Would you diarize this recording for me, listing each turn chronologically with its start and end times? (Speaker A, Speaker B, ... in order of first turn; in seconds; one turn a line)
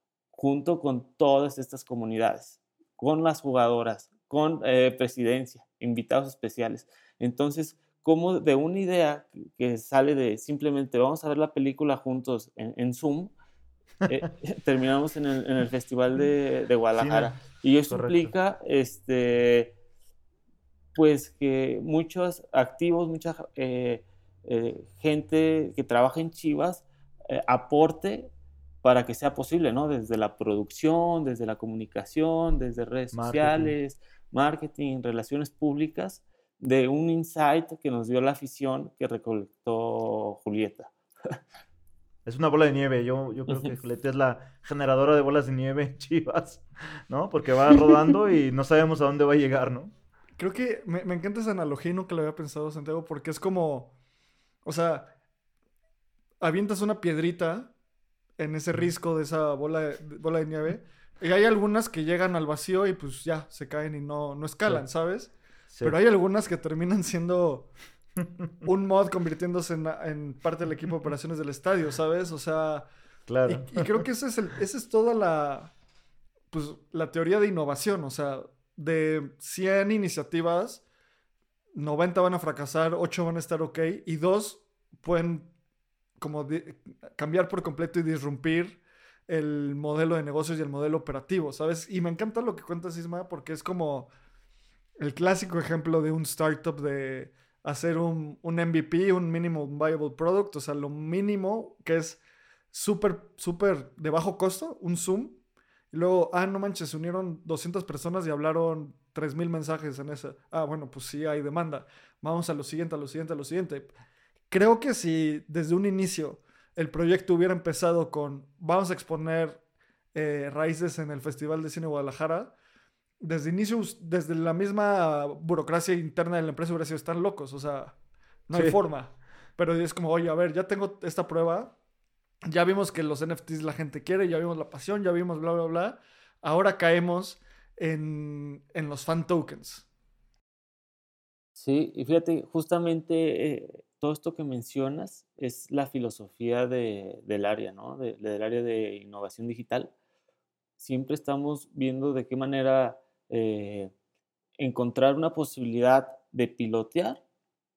Speaker A: 0.3-13.3
Speaker A: 14.1-19.7
Speaker B: 16.9-18.3
Speaker A: 20.9-28.3
Speaker A: 28.8-41.4
Speaker B: 33.1-33.8
Speaker B: 42.2-49.9
Speaker A: 43.5-43.7
Speaker C: 50.4-53.9
Speaker C: 54.6-55.1
Speaker C: 56.4-57.7
Speaker C: 58.4-67.7
Speaker B: 65.7-66.0
Speaker C: 68.6-72.9
Speaker B: 73.3-74.0
Speaker C: 73.5-75.7
Speaker C: 76.5-80.8
Speaker C: 81.7-85.5
Speaker C: 86.2-94.1
Speaker C: 95.0-102.2
Speaker C: 102.7-105.4
Speaker C: 105.9-113.9
Speaker C: 114.5-119.6
Speaker C: 120.1-122.5
Speaker C: 123.2-127.9
Speaker C: 128.5-131.7
Speaker B: 128.5-128.8
Speaker C: 132.5-139.8
Speaker A: 141.6-149.9
Speaker A: 150.8-153.9
Speaker A: 154.6-157.2